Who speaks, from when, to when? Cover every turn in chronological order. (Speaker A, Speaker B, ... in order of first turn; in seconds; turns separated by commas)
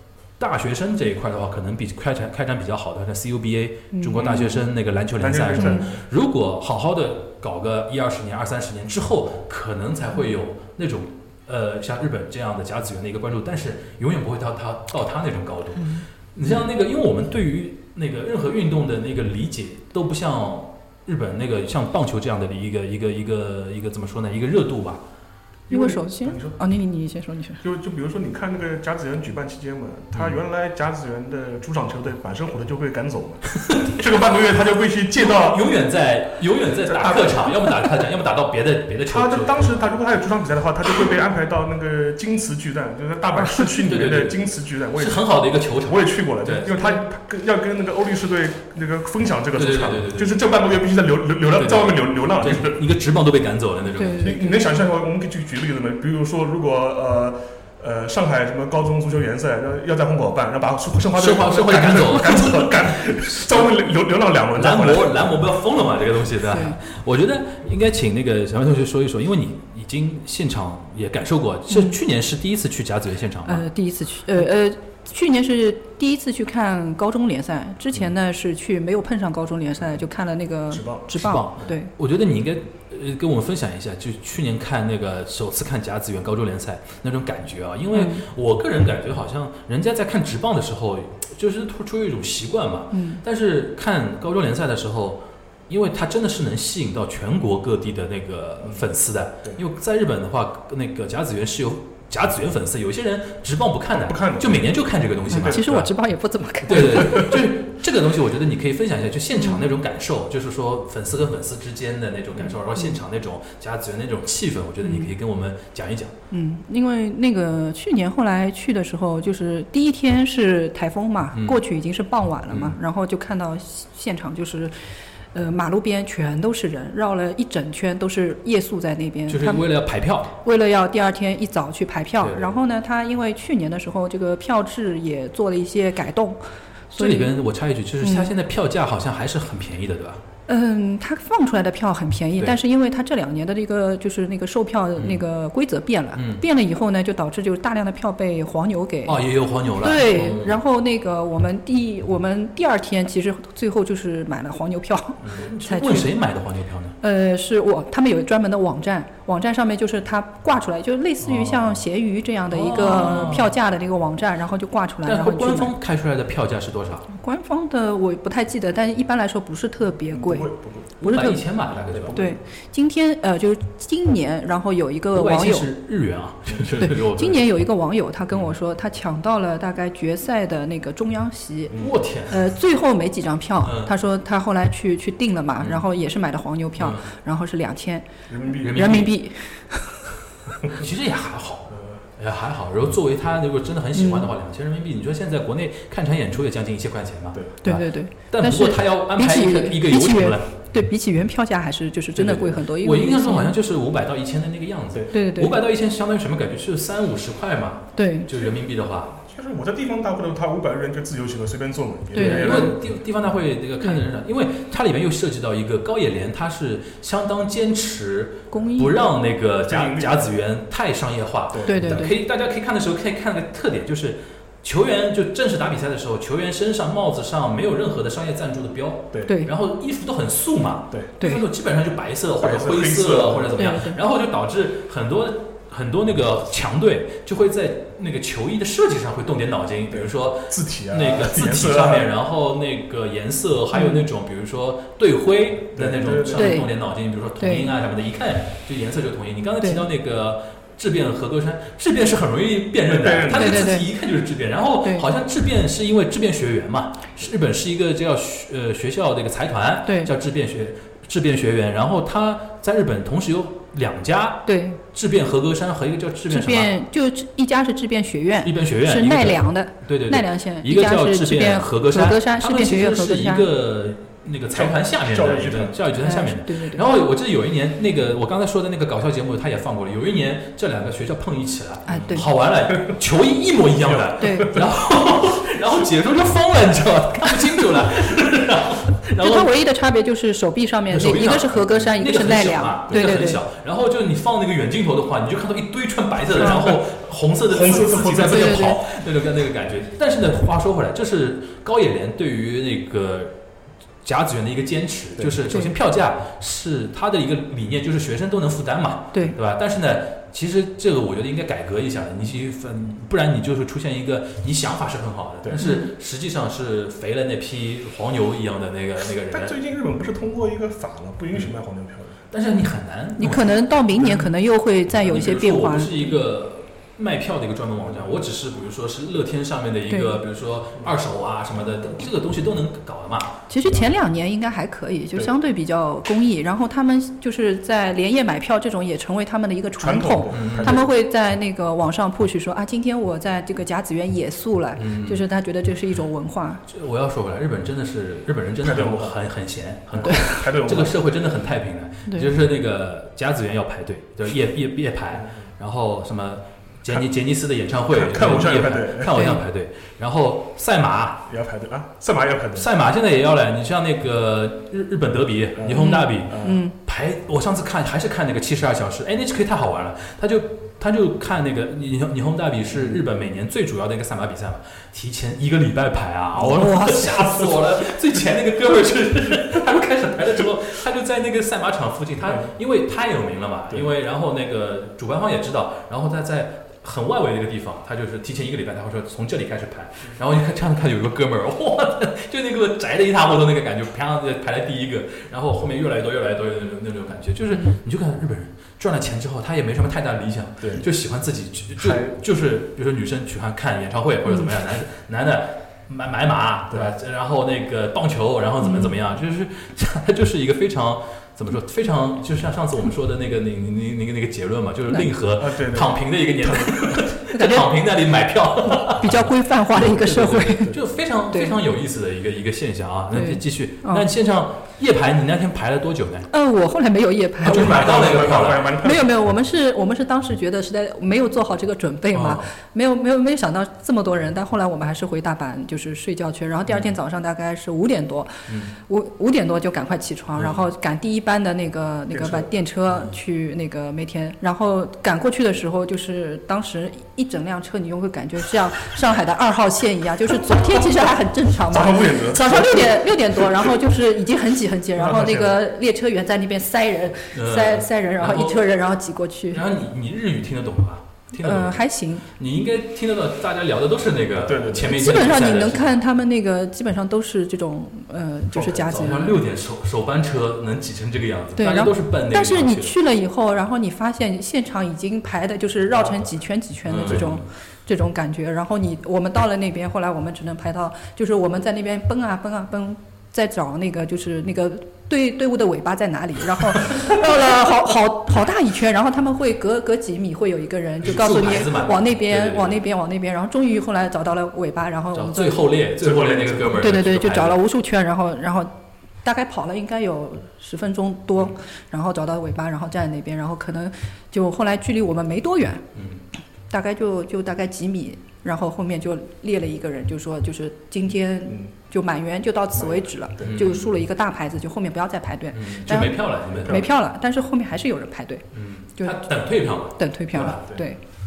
Speaker A: 0.4-25.0, Speaker B: 3.9-4.5, Speaker C: 4.2-4.5, Speaker C: 5.2-6.0, Speaker B: 5.6-5.9, Speaker C: 25.7-26.6, Speaker B: 25.7-27.6, Speaker C: 27.6-35.6, Speaker A: 33.6-34.0, Speaker A: 35.2-39.7, Speaker C: 36.9-37.5, Speaker C: 39.1-52.8, Speaker A: 43.7-46.8, Speaker A: 49.5-50.4, Speaker A: 51.6-54.4, Speaker B: 54.0-54.7, Speaker C: 54.2-65.4, Speaker A: 61.1-63.8, Speaker A: 64.5-73.6, Speaker B: 66.4-66.8, Speaker B: 71.7-72.0, Speaker B: 73.5-81.9, Speaker C: 80.7-81.7, Speaker A: 81.1-105.9, Speaker B: 87.9-88.2, Speaker B: 92.9-93.2, Speaker C: 98.6-98.9, Speaker C: 104.1-104.8, Speaker C: 105.3-105.9, Speaker B: 105.3-107.4, Speaker A: 106.7-116.1, Speaker C: 106.7-107.3, Speaker B: 109.3-109.7, Speaker B: 114.8-115.1, Speaker B: 116.3-124.7, Speaker A: 121.3-121.6, Speaker A: 122.5-122.8, Speaker B: 125.3-129.7, Speaker A: 129.3-130.3, Speaker B: 130.4-136.4, Speaker A: 132.2-132.6, Speaker B: 136.9-137.3, Speaker A: 137.0-140.2, Speaker B: 138.0-138.3, Speaker B: 140.5-149.2, Speaker A: 145.0-145.2, Speaker A: 146.1-146.4, Speaker A: 149.1-150.6, Speaker B: 149.8-156.1, Speaker A: 155.2-157.0, Speaker B: 157.0-165.7, Speaker A: 161.2-161.8, Speaker A: 162.5-163.5, Speaker A: 165.1-167.1, Speaker B: 167.1-170.5, Speaker C: 170.1-171.0, Speaker A: 171.0-172.3, Speaker B: 171.0-171.4, Speaker C: 171.9-172.4, Speaker B: 172.1-175.7, Speaker A: 175.1-177.4, Speaker B: 176.8-181.8, Speaker C: 181.7-182.0, Speaker A: 181.8-182.4, Speaker B: 182.3-188.1, Speaker A: 183.6-183.9, Speaker A: 186.8-187.1, Speaker C: 188.3-189.0, Speaker A: 188.6-189.1, Speaker B: 188.6-190.0, Speaker A: 190.7-200.5, Speaker C: 191.7-192.0, Speaker B: 193.9-194.3, Speaker B: 197.6-203.5, Speaker A: 202.2-209.2, Speaker B: 205.1-205.6, Speaker B: 208.0-208.3, Speaker C: 209.2-212.9, Speaker B: 212.1-212.7, Speaker A: 212.2-266.7, Speaker B: 218.5-219.0, Speaker C: 219.7-220.4, Speaker C: 221.5-222.1, Speaker B: 221.7-222.1, Speaker B: 229.3-229.5, Speaker C: 232.4-233.8, Speaker B: 233.6-234.0, Speaker C: 239.9-242.1, Speaker B: 243.7-244.1, Speaker C: 245.8-246.6, Speaker B: 246.3-246.7, Speaker B: 247.4-247.7, Speaker C: 252.9-253.7, Speaker B: 253.3-253.9, Speaker B: 259.9-260.1, Speaker B: 264.5-264.8, Speaker B: 266.3-273.5, Speaker A: 268.4-289.5, Speaker C: 274.5-275.8, Speaker B: 276.0-276.9, Speaker B: 281.9-282.3, Speaker C: 283.8-284.7, Speaker B: 284.2-284.6, Speaker B: 289.2-293.4, Speaker A: 290.9-303.3, Speaker C: 292.9-293.2, Speaker B: 296.4-296.7, Speaker C: 296.4-296.8, Speaker C: 297.5-298.8, Speaker B: 298.2-298.8, Speaker A: 304.0-319.6, Speaker C: 305.2-305.5, Speaker B: 315.6-315.9, Speaker C: 319.3-322.2, Speaker A: 322.3-323.6, Speaker B: 323.2-326.2, Speaker A: 325.0-333.4, Speaker B: 329.9-330.2, Speaker B: 333.5-346.6, Speaker C: 339.8-340.9, Speaker A: 340.3-340.8, Speaker A: 344.8-345.2, Speaker A: 346.7-361.2, Speaker C: 348.6-349.2, Speaker C: 349.9-351.0, Speaker B: 350.0-350.4, Speaker C: 357.9-359.2, Speaker B: 359.1-359.4, Speaker C: 361.3-362.7, Speaker A: 362.6-426.3, Speaker C: 365.6-366.6, Speaker B: 365.8-366.8, Speaker C: 372.7-373.0, Speaker C: 376.4-377.6, Speaker B: 376.4-377.2, Speaker C: 382.2-382.5, Speaker C: 401.8-402.1, Speaker B: 408.6-408.9, Speaker C: 415.4-417.1, Speaker B: 417.3-417.7, Speaker B: 418.8-420.8, Speaker B: 421.3-421.6, Speaker B: 423.1-424.1, Speaker B: 426.3-428.0, Speaker C: 427.4-429.1, Speaker A: 427.4-428.7, Speaker B: 428.8-459.6, Speaker A: 432.1-432.5, Speaker A: 438.5-438.7, Speaker C: 442.1-442.5, Speaker C: 451.7-453.8, Speaker C: 455.0-455.6, Speaker A: 457.3-458.6, Speaker A: 459.5-465.9, Speaker B: 461.4-462.3, Speaker C: 464.4-465.7, Speaker B: 464.9-469.4, Speaker C: 468.5-468.9, Speaker A: 468.9-473.0, Speaker B: 471.6-495.7, Speaker A: 476.9-477.4, Speaker C: 477.1-477.4, Speaker A: 491.0-492.8, Speaker A: 495.1-497.6, Speaker C: 496.0-496.9, Speaker B: 496.7-498.7, Speaker B: 499.2-505.9, Speaker A: 505.9-506.2, Speaker B: 506.7-519.2, Speaker C: 512.8-513.7, Speaker A: 513.4-513.9, Speaker A: 515.5-516.8, Speaker C: 516.6-516.9, Speaker A: 518.5-520.8, Speaker B: 520.0-521.0